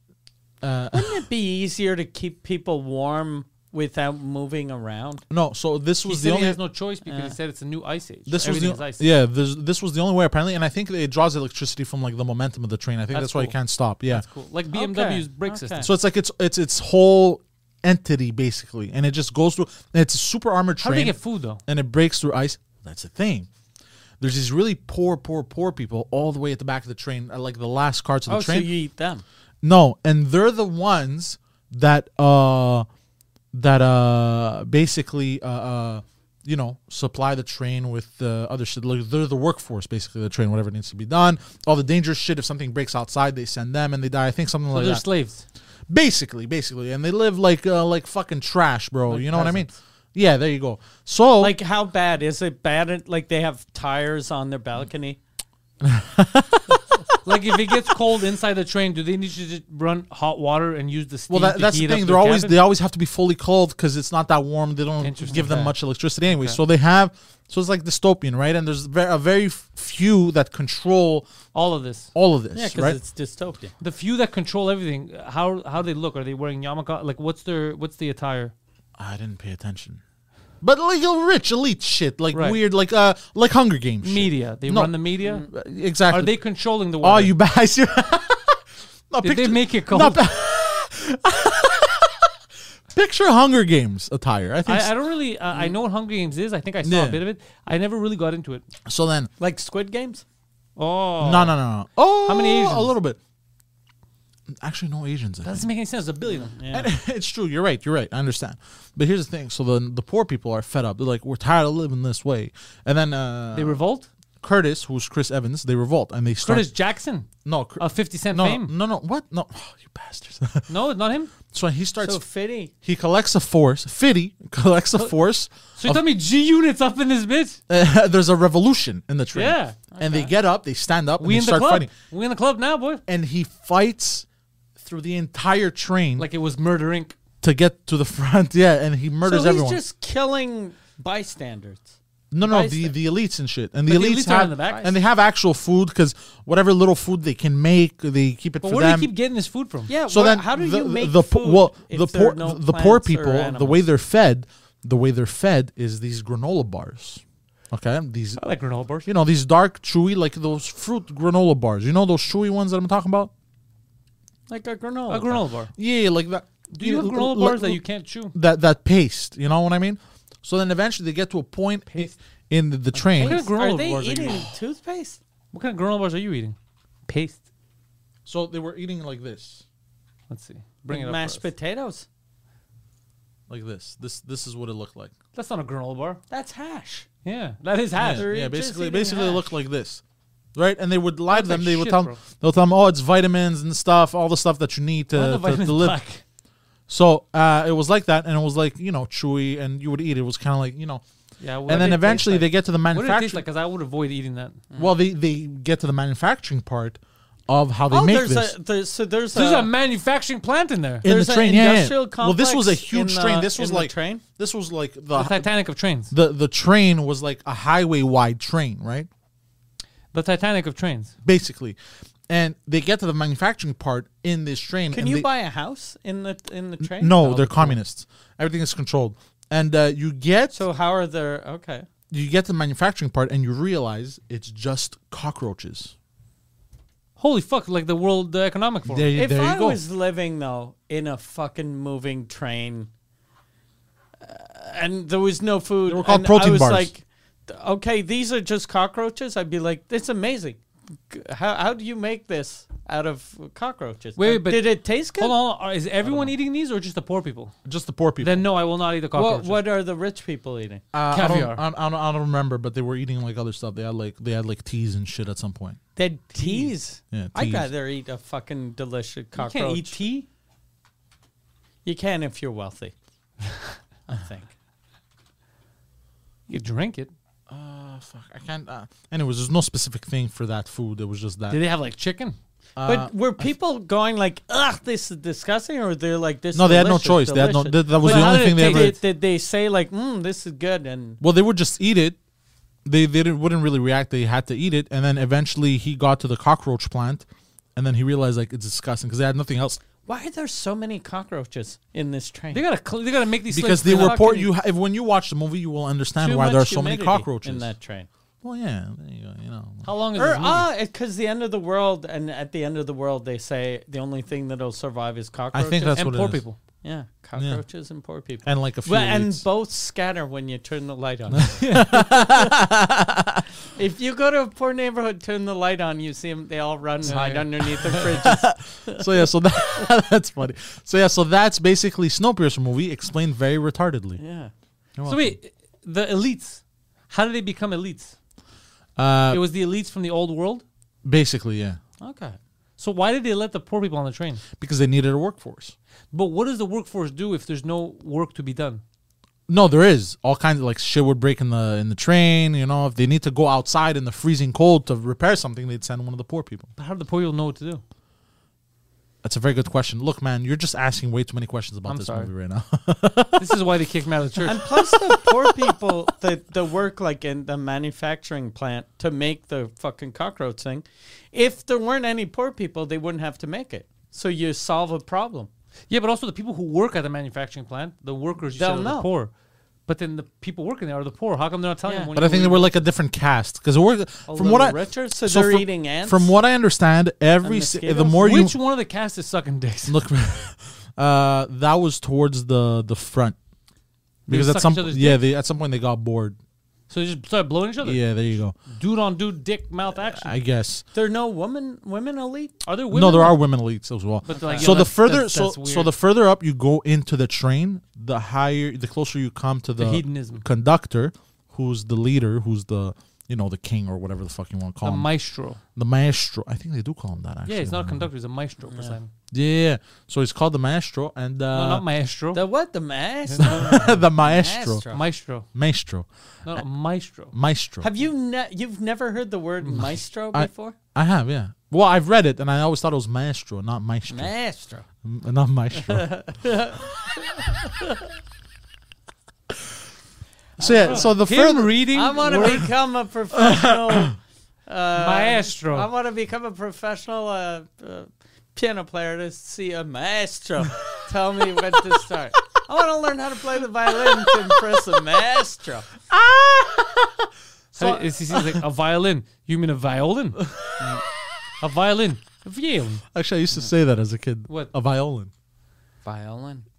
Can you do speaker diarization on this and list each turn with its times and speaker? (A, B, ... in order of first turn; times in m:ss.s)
0:00.6-0:01.2 A
0:00.9-0:05.2 B
0:05.3-0:06.6 A
0:06.0-0:09.1 C
0:07.0-0:07.3 B
0:08.3-0:14.2 A
0:13.1-0:13.6 C
0:14.1-0:15.9 C
0:14.7-0:15.9 B
0:15.8-0:23.5 A
0:20.8-0:21.6 C
0:24.2-0:28.7 A
0:28.3-0:29.2 B
0:29.6-0:32.8 A
0:33.5-0:45.0 A
0:44.7-0:45.4 C
0:45.9-0:51.6 A
0:49.1-0:49.7 C
0:51.4-0:55.2 B
0:55.8-0:57.2 A
0:57.2-1:02.6 C
1:01.3-1:11.3 A
1:05.0-1:05.7 C
1:05.3-1:05.7 B
1:06.3-1:06.6 C
1:11.5-1:12.1 C
1:12.1-1:13.0 A
1:12.5-1:13.7 B
1:13.8-1:18.5 C
1:19.0-1:20.0 A
1:20.6-1:26.3 A
1:22.3-1:22.6 C
1:24.0-1:25.4 C
1:26.1-1:27.3 C
1:27.0-1:32.3 A
1:29.2-1:30.2 C
1:32.9-1:34.9 A
1:34.6-1:38.6 C
1:36.8-1:37.2 A
1:38.8-1:39.3 A
1:39.4-1:40.2 B
1:40.8-1:41.6 C
1:41.2-1:43.2 A
1:42.2-1:42.9 C
1:44.5-1:45.7 A
1:45.4-1:46.6 C
1:46.3-1:46.9 B
1:46.7-1:53.8 A
1:53.5-1:54.1 C
1:54.4-1:56.7 A
1:56.4-1:58.7 C
1:57.4-2:00.6 A
2:00.7-2:01.3 C
2:01.5-2:02.2 A
2:02.0-2:02.7 B
2:02.8-2:06.0 A
2:05.8-2:07.6 C
2:07.7-2:11.9 A
2:09.3-2:09.8 C
2:09.9-2:10.3 B
2:11.2-2:13.0 C
2:13.1-2:14.2 A
2:14.8-2:16.3 A
2:16.2-2:17.2 C
2:17.4-2:19.8 A
2:19.2-2:21.9 B
2:22.3-2:29.1 A
2:22.4-2:22.9 B
2:23.9-2:24.9 C
2:28.6-2:29.9 C
2:29.9-2:33.8 B
2:30.1-2:38.4 A
2:38.4-2:39.1 C
2:39.0-2:43.3 A
2:44.5-2:45.4 B
2:45.1-2:45.7 C
2:45.8-2:47.8 A
2:46.7-2:48.3 C
2:48.3-2:53.4 A
2:53.1-2:54.5 C
2:53.1-2:55.2 B
2:55.5-2:56.6 C
2:57.1-2:57.4 C
2:58.2-2:59.6 A
3:00.3-3:01.5 C
3:00.9-3:02.0 B
3:03.5-3:05.1 A
3:05.3-3:06.2 C
3:06.3-3:07.1 B
3:07.2-3:08.3 C
3:08.0-3:10.0 A
3:08.1-3:09.4 B
3:10.5-3:16.0 A
3:11.3-3:12.2 C
3:15.1-3:16.2 C
3:16.9-3:21.0 A
3:21.4-3:24.6 C
3:21.7-3:23.4 A
3:24.8-3:28.5 A
3:27.9-3:29.7 B
3:29.3-3:31.0 C
3:31.0-3:35.5 A
3:31.0-3:34.2 B
3:35.1-3:36.1 C
3:36.1-3:39.1 A
3:40.1-3:41.1 C
3:41.2-3:41.8 A
3:42.3-3:45.3 A
3:44.9-3:47.8 B
3:46.8-3:50.6 A
3:50.5-3:51.9 B
3:52.1-3:55.9 A
3:57.2-3:59.1 C
3:58.8-3:59.8 A
3:59.1-4:02.9 B
4:04.2-4:10.6 B
4:05.9-4:06.9 A
4:11.1-4:15.4 B
4:14.2-4:17.6 C
4:16.0-4:16.3 B
4:17.6-4:18.4 A
4:18.2-4:19.6 C
4:19.1-4:20.8 B
4:20.9-4:25.8 A
4:21.1-4:21.6 C
4:26.0-4:30.0 B
4:26.4-4:26.7 C
4:27.1-4:27.7 A
4:29.4-4:30.2 C
4:31.8-4:32.9 B
4:34.1-4:34.5 B
4:36.5-4:37.1 C
4:37.5-4:41.6 A
4:41.5-4:42.4 C
4:42.8-4:43.4 A
4:42.8-4:51.2 B
4:46.5-4:49.0 A
4:48.0-4:49.0 C
4:51.2-4:52.2 A
4:52.8-4:59.8 A
5:00.0-5:02.6 B
5:02.5-5:04.5 C
5:03.5-5:07.7 A
5:03.8-5:04.4 B
5:06.2-5:08.1 B
5:08.4-5:09.9 A
5:09.8-5:10.7 C
5:10.2-5:16.0 B
5:15.5-5:16.4 A
5:15.9-5:16.6 C
5:16.8-5:22.2 B
5:17.4-5:17.6 A
5:18.4-5:19.4 A
5:21.3-5:23.4 A
5:21.6-5:22.0 C
5:23.7-5:29.1 B
5:27.1-5:28.0 C
5:27.9-5:34.2 A
5:34.2-5:34.5 B
5:35.0-5:35.4 A
5:35.0-5:38.1 C
5:39.0-5:39.4 A
5:39.3-5:40.6 C
5:41.0-5:41.8 A
5:42.0-5:42.4 B
5:42.8-5:44.4 C
5:44.6-5:45.7 A
5:46.1-5:48.8 C
5:49.5-5:56.7 A
5:56.8-5:57.8 C
5:59.2-6:03.6 A
6:01.9-6:02.3 C
6:03.4-6:04.7 C
6:04.4-6:15.5 B
6:05.1-6:05.7 A
6:15.9-6:19.3 C
6:18.5-6:19.1 B
6:19.9-6:22.8 C
6:21.8-6:22.1 B
6:22.1-6:28.6 A
6:24.3-6:26.3 B
6:27.4-6:28.2 B
6:28.1-6:30.0 C
6:29.9-6:33.4 A
6:34.3-6:35.2 C
6:34.3-6:36.4 A
6:36.9-6:38.1 C
6:37.8-6:38.6 A
6:38.7-6:40.3 C
6:40.0-6:40.8 A
6:40.9-6:42.5 B
6:42.6-6:43.4 C
6:42.9-6:55.1 A
6:44.3-6:45.9 C
6:44.3-6:44.9 B
6:49.8-6:50.4 C
6:54.8-6:55.6 C
6:55.8-6:58.1 A
6:57.4-6:59.1 C
6:58.7-6:59.0 B
6:59.3-7:01.8 A
7:01.5-7:02.4 C
7:02.3-7:05.0 B
7:03.4-7:04.8 A
7:04.9-7:05.5 C
7:05.5-7:06.6 A
7:06.4-7:07.3 C
7:07.3-7:07.9 A
7:07.8-7:10.8 B
7:10.3-7:14.3 A
7:14.1-7:14.8 B
7:15.0-7:16.1 A
7:15.7-7:17.8 B
7:20.6-7:21.8 A
7:20.6-7:21.2 B
7:20.6-7:22.7 C
7:21.9-7:35.9 B
7:23.5-7:24.1 A
7:25.0-7:25.9 C
7:34.1-7:34.4 A
7:36.1-7:38.6 A
7:37.7-7:40.4 C
7:40.4-7:40.8 A
7:41.6-7:43.0 C
7:43.1-7:45.3 A
7:46.0-7:46.6 B